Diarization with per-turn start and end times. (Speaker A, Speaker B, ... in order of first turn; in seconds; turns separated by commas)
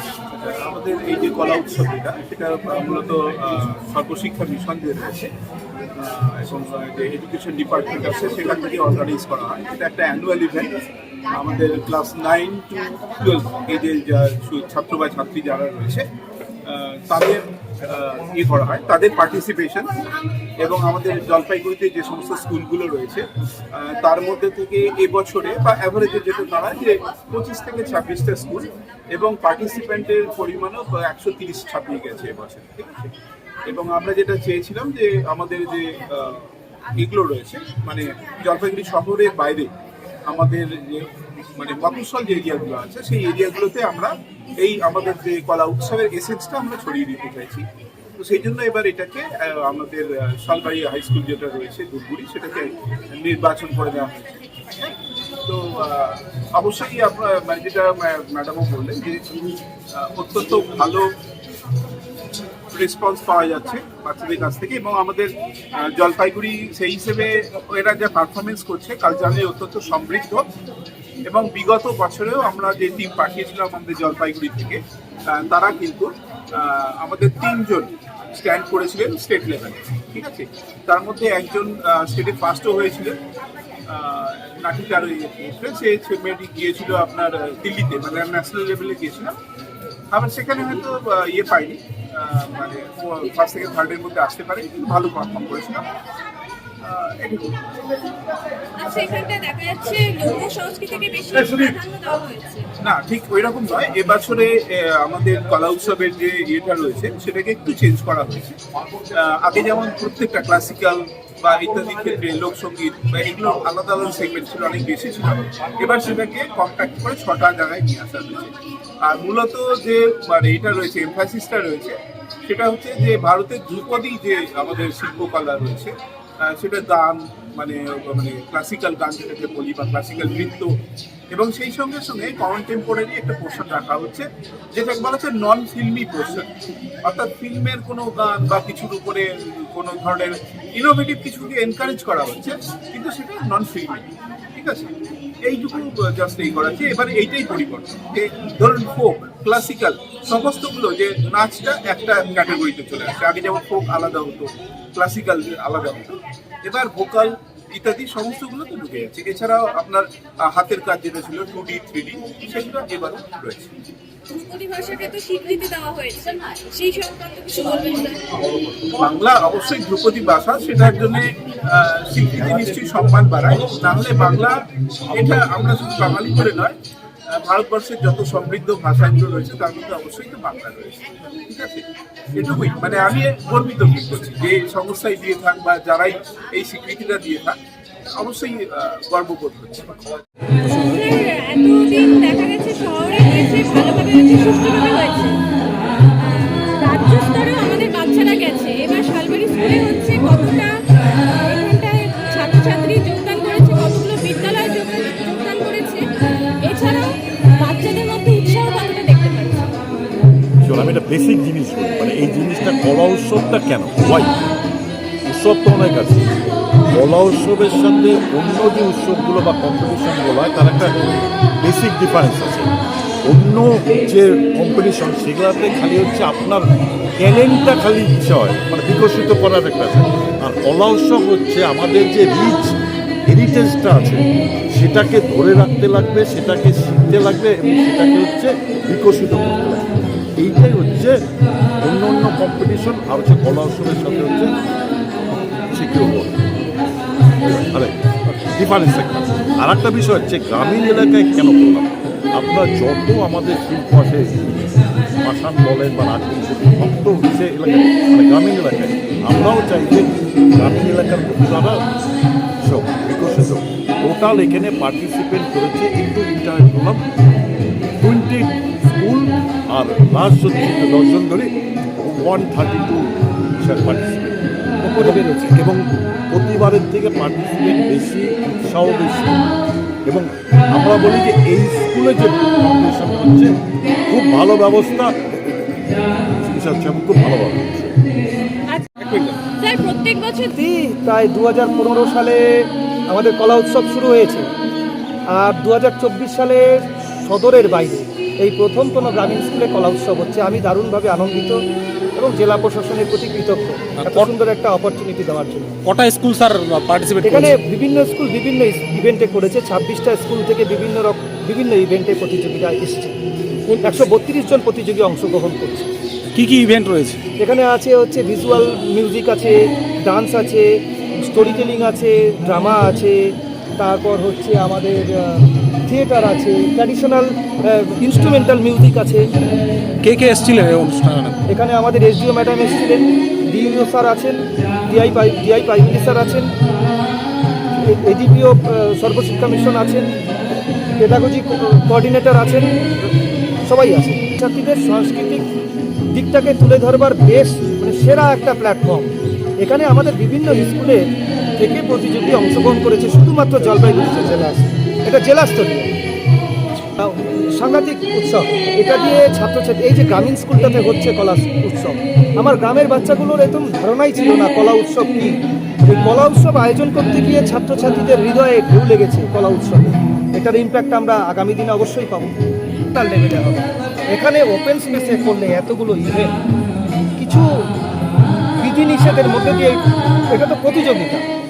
Speaker A: 0.4-5.3, Speaker A: 5.9-10.7, Speaker A: 11.3-16.1, Speaker A: 16.6-20.0, Speaker A: 20.6-33.1, Speaker A: 33.6-39.7, Speaker A: 40.2-47.6, Speaker A: 48.1-59.2, Speaker A: 59.9-61.1, Speaker A: 62.7-70.5, Speaker A: 71.3-83.2, Speaker A: 83.9-89.4, Speaker A: 90.1-95.8, Speaker A: 96.8-97.5, Speaker B: 98.8-102.7, Speaker A: 102.8-108.6, Speaker A: 109.1-130.7, Speaker A: 131.3-136.5, Speaker A: 137.0-144.9, Speaker A: 145.4-163.7, Speaker B: 164.3-168.4, Speaker A: 168.9-176.8, Speaker A: 177.3-187.6, Speaker A: 188.2-190.0, Speaker B: 190.7-195.4, Speaker B: 196.4-200.7, Speaker B: 201.4-206.0, Speaker B: 206.6-209.7, Speaker C: 210.6-214.3, Speaker C: 215.2-216.4, Speaker C: 216.9-222.7, Speaker C: 223.2-232.7, Speaker C: 233.3-234.2, Speaker C: 234.7-241.2, Speaker C: 241.8-244.5, Speaker C: 245.3-246.4, Speaker C: 247.4-261.8, Speaker C: 262.6-267.0, Speaker C: 268.0-271.5, Speaker C: 272.0-273.0, Speaker C: 273.6-274.4, Speaker D: 274.8-275.5, Speaker C: 275.0-279.4, Speaker C: 280.1-283.5, Speaker C: 284.1-287.9, Speaker B: 288.7-290.5, Speaker D: 290.5-294.5, Speaker D: 295.3-301.6, Speaker D: 302.1-305.8, Speaker E: 304.0-304.3, Speaker E: 305.8-307.6, Speaker D: 307.2-313.1, Speaker E: 313.7-314.0, Speaker D: 313.8-315.9, Speaker E: 316.4-317.2, Speaker D: 317.4-320.6, Speaker D: 321.1-323.2, Speaker D: 323.8-329.2, Speaker E: 330.0-331.4, Speaker D: 331.5-336.5, Speaker D: 337.8-340.1, Speaker D: 341.0-343.1, Speaker D: 343.6-345.4, Speaker D: 346.1-349.1, Speaker D: 349.6-351.0, Speaker D: 351.6-355.9, Speaker D: 357.0-372.3, Speaker D: 372.9-376.3, Speaker D: 377.2-377.4, Speaker D: 378.6-381.2